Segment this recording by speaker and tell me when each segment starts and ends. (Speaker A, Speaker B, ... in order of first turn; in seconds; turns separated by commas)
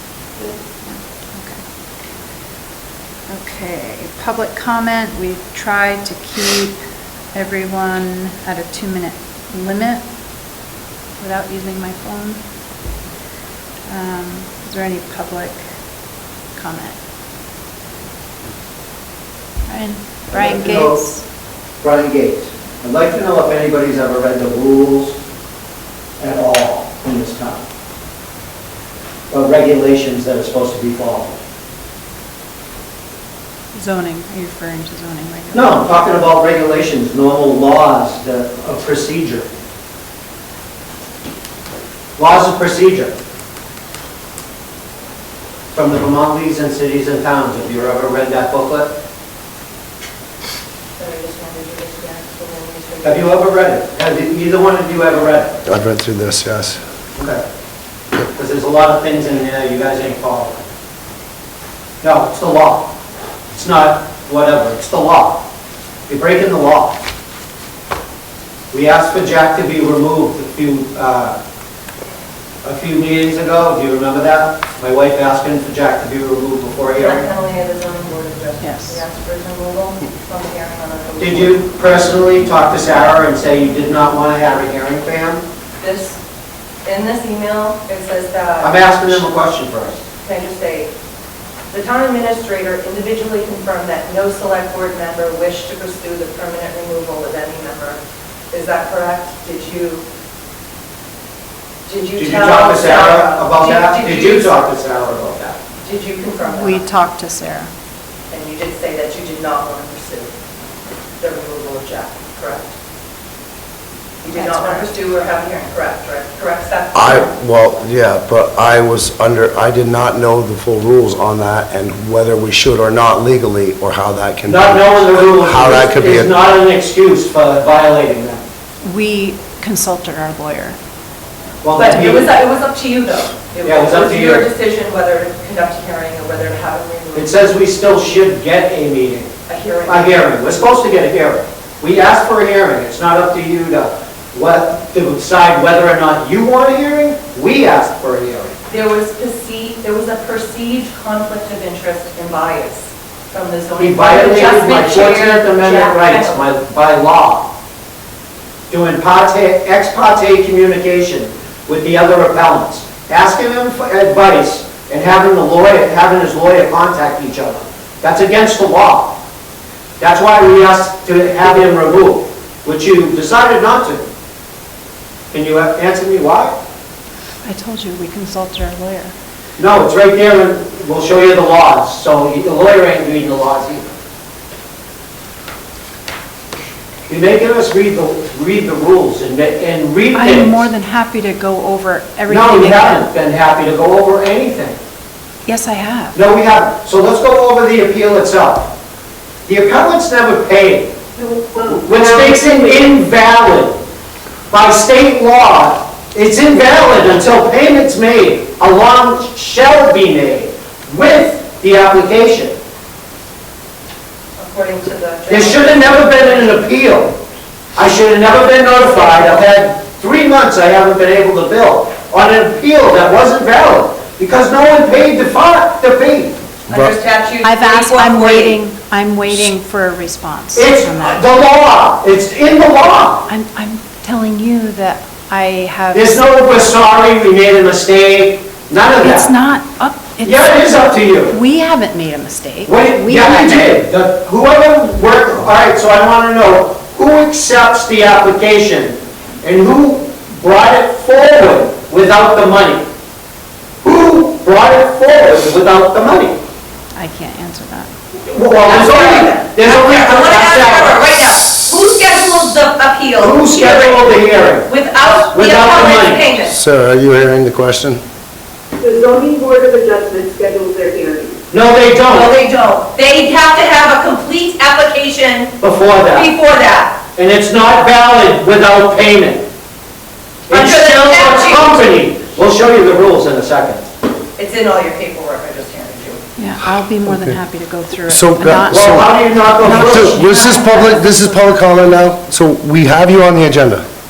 Speaker A: 0.8-1.6, Speaker A: 3.3-6.8, Speaker A: 7.3-10.1, Speaker A: 11.2-12.4, Speaker A: 13.9-15.6, Speaker A: 16.5-17.0, Speaker A: 19.7-21.2, Speaker B: 20.3-21.0, Speaker B: 21.8-25.2, Speaker B: 26.2-27.6, Speaker B: 29.3-31.4, Speaker A: 33.7-35.9, Speaker B: 35.5-39.5, Speaker B: 42.2-43.2, Speaker B: 45.7-49.0, Speaker C: 51.0-53.4, Speaker B: 53.0-55.6, Speaker D: 55.6-56.8, Speaker B: 57.2-57.4, Speaker B: 58.2-60.6, Speaker B: 62.0-62.9, Speaker B: 63.5-65.4, Speaker B: 66.1-67.0, Speaker B: 68.7-71.4, Speaker B: 72.6-77.2, Speaker C: 77.0-81.6, Speaker A: 78.6-79.0, Speaker B: 81.2-85.4, Speaker C: 85.8-86.2, Speaker C: 86.8-89.2, Speaker B: 88.6-90.0, Speaker C: 90.1-90.9, Speaker C: 91.7-98.0, Speaker C: 98.5-100.0, Speaker C: 101.9-104.7, Speaker B: 102.2-105.5, Speaker C: 105.8-106.8, Speaker A: 106.4-107.7, Speaker C: 108.3-110.3, Speaker C: 111.2-112.7, Speaker C: 114.2-117.3, Speaker A: 114.3-114.9, Speaker D: 116.9-126.3, Speaker B: 124.5-128.4, Speaker A: 128.8-130.8, Speaker B: 131.6-132.3, Speaker C: 131.7-137.3, Speaker B: 133.6-134.5, Speaker B: 137.1-139.3, Speaker C: 139.5-140.2, Speaker B: 139.9-148.6, Speaker C: 148.7-156.4, Speaker B: 153.8-157.5, Speaker B: 158.7-169.2, Speaker B: 170.0-174.1, Speaker B: 175.3-176.6, Speaker A: 177.4-179.1, Speaker B: 179.6-183.9, Speaker B: 187.1-190.7, Speaker A: 190.1-193.1, Speaker B: 192.3-194.8, Speaker A: 195.5-196.2, Speaker B: 196.2-198.7, Speaker B: 199.5-201.0, Speaker E: 201.2-201.8, Speaker B: 201.7-203.8, Speaker B: 204.5-212.6, Speaker C: 214.4-216.6, Speaker B: 215.3-217.2, Speaker B: 217.8-226.5, Speaker C: 218.9-219.4, Speaker C: 226.7-228.6, Speaker A: 227.4-231.2, Speaker B: 230.6-233.3, Speaker A: 233.3-236.2, Speaker B: 235.9-239.3, Speaker A: 239.0-243.8, Speaker B: 240.2-241.3, Speaker B: 242.7-252.8, Speaker B: 253.8-256.4, Speaker A: 256.9-257.9, Speaker B: 258.2-261.2, Speaker C: 258.5-266.6, Speaker B: 263.2-264.7, Speaker B: 265.3-266.3, Speaker D: 266.5-268.0, Speaker E: 268.9-271.3, Speaker B: 271.5-272.3, Speaker C: 272.1-277.0, Speaker B: 275.6-276.3, Speaker B: 277.1-279.5, Speaker C: 280.5-281.9, Speaker B: 280.5-283.9, Speaker C: 284.4-286.2, Speaker A: 286.4-292.0, Speaker D: 287.1-287.4, Speaker D: 288.1-293.9, Speaker B: 288.7-290.6